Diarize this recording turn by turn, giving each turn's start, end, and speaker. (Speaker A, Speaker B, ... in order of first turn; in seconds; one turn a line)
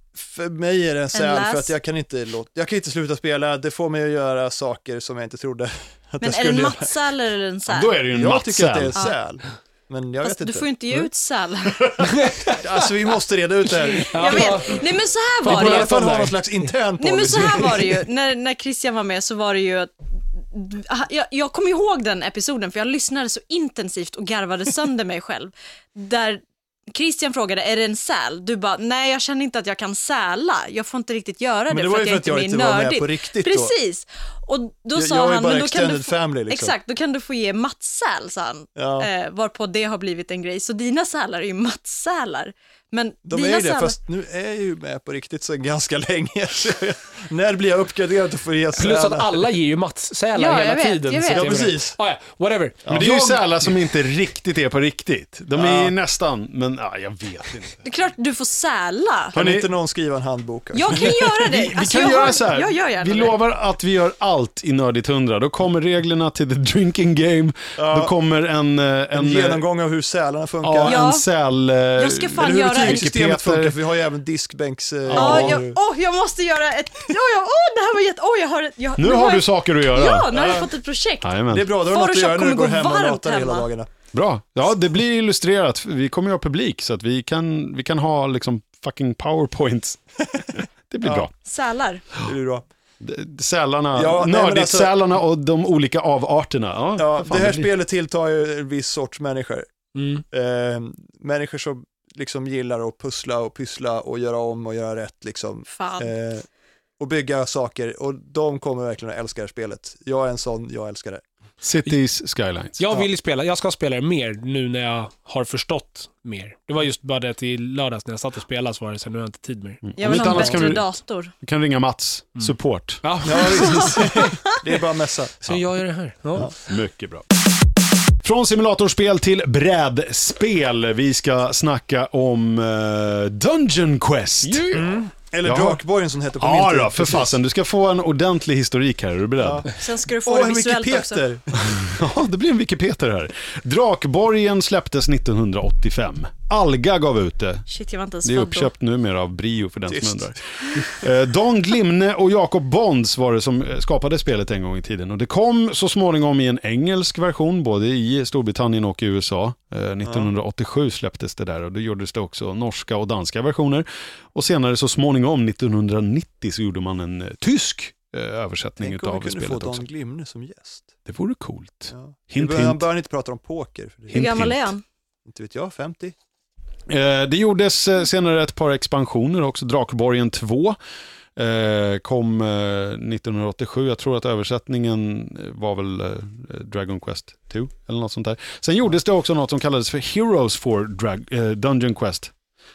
Speaker A: 0.1-6.9
Speaker B: 1.1-1.7
Speaker B: 6.2-8.0
Speaker C: 7.7-9.0
Speaker A: 8.1-11.1
Speaker B: 10.2-12.1
Speaker D: 12.0-12.7
Speaker A: 12.5-14.8
Speaker D: 14.0-14.8
Speaker B: 14.1-16.0
Speaker D: 15.4-16.4
Speaker A: 15.4-18.0
Speaker B: 17.0-43.9
Speaker A: 31.7-33.7
Speaker A: 34.9-36.7
Speaker A: 38.8-39.1
Speaker A: 43.2-49.5
Speaker D: 48.8-53.1
Speaker B: 50.3-51.7
Speaker A: 51.3-52.0
Speaker A: 52.8-53.3
Speaker C: 52.9-57.8
Speaker A: 55.5-55.9
Speaker B: 57.8-59.3
Speaker A: 59.3-61.2
Speaker C: 59.3-59.7
Speaker B: 60.7-63.4
Speaker C: 61.0-69.6
Speaker A: 67.8-68.1
Speaker A: 69.1-71.0
Speaker C: 70.6-73.8
Speaker B: 70.8-71.2
Speaker B: 72.0-73.1
Speaker A: 72.4-75.8
Speaker C: 75.1-75.6
Speaker B: 75.1-83.7
Speaker C: 79.0-80.3
Speaker A: 80.3-80.7
Speaker C: 81.2-81.7
Speaker A: 81.5-83.9
Speaker C: 84.1-90.0
Speaker C: 90.5-91.3
Speaker A: 91.0-91.3
Speaker B: 91.4-92.0
Speaker A: 92.2-92.6
Speaker C: 93.0-97.7
Speaker A: 93.9-94.9
Speaker A: 97.0-99.7
Speaker D: 99.9-100.2
Speaker A: 100.3-106.5
Speaker B: 105.7-106.1
Speaker A: 107.0-111.2
Speaker C: 111.6-112.8
Speaker D: 112.8-119.8
Speaker C: 119.8-120.8
Speaker B: 120.0-121.3
Speaker A: 120.3-120.7
Speaker C: 121.4-123.0
Speaker D: 123.0-124.6
Speaker A: 123.2-125.6
Speaker B: 123.5-124.3
Speaker D: 125.4-126.5
Speaker C: 126.4-127.2
Speaker C: 128.2-134.9
Speaker D: 134.4-135.1
Speaker A: 134.7-137.4
Speaker C: 135.4-135.8
Speaker C: 136.4-139.7
Speaker A: 139.4-141.9
Speaker B: 139.8-141.2
Speaker C: 141.6-147.7
Speaker B: 147.7-148.7
Speaker C: 148.2-169.8
Speaker A: 149.9-151.0
Speaker A: 160.1-160.3
Speaker A: 168.8-170.9
Speaker C: 171.1-172.8
Speaker A: 171.9-174.5
Speaker C: 174.1-174.7
Speaker B: 174.1-174.8
Speaker A: 175.3-176.1
Speaker C: 176.9-180.8
Speaker C: 181.3-192.3